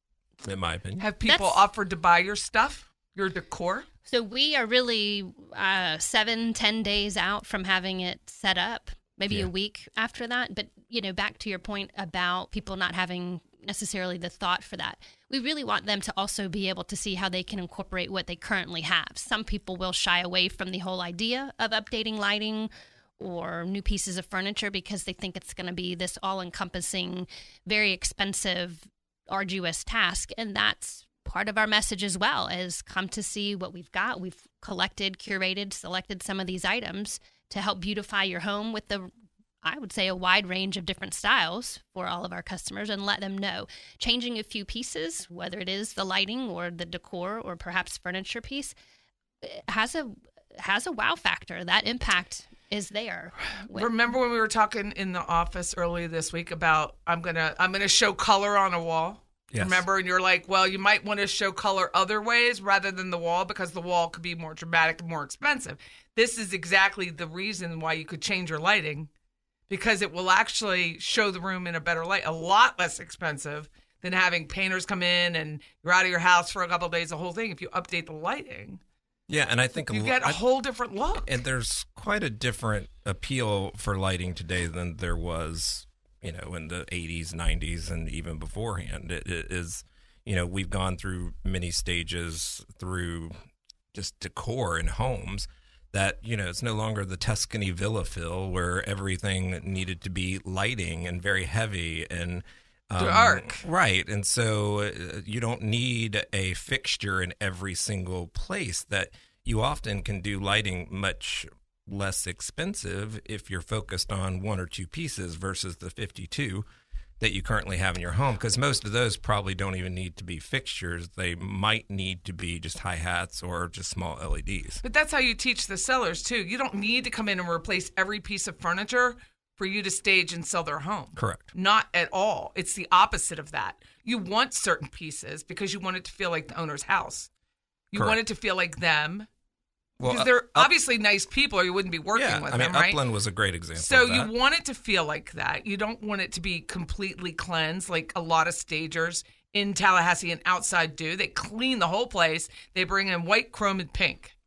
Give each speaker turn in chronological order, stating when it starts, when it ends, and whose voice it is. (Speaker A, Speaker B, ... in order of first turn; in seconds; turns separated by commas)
Speaker A: 0.4-1.1, Speaker B: 1.0-3.9, Speaker C: 1.2-1.6, Speaker C: 4.1-39.1, Speaker C: 39.6-48.7, Speaker C: 49.4-53.9, Speaker B: 53.7-69.1, Speaker A: 59.5-59.9, Speaker B: 69.7-78.8, Speaker A: 79.3-80.4, Speaker B: 79.9-81.3, Speaker A: 81.2-93.3, Speaker A: 93.9-116.7, Speaker B: 103.0-103.6, Speaker A: 117.2-124.8, Speaker B: 124.8-137.3, Speaker A: 131.2-131.5, Speaker B: 137.9-139.3, Speaker A: 137.9-138.2, Speaker A: 140.0-140.7, Speaker B: 140.0-143.0, Speaker A: 142.1-144.3, Speaker B: 143.8-154.3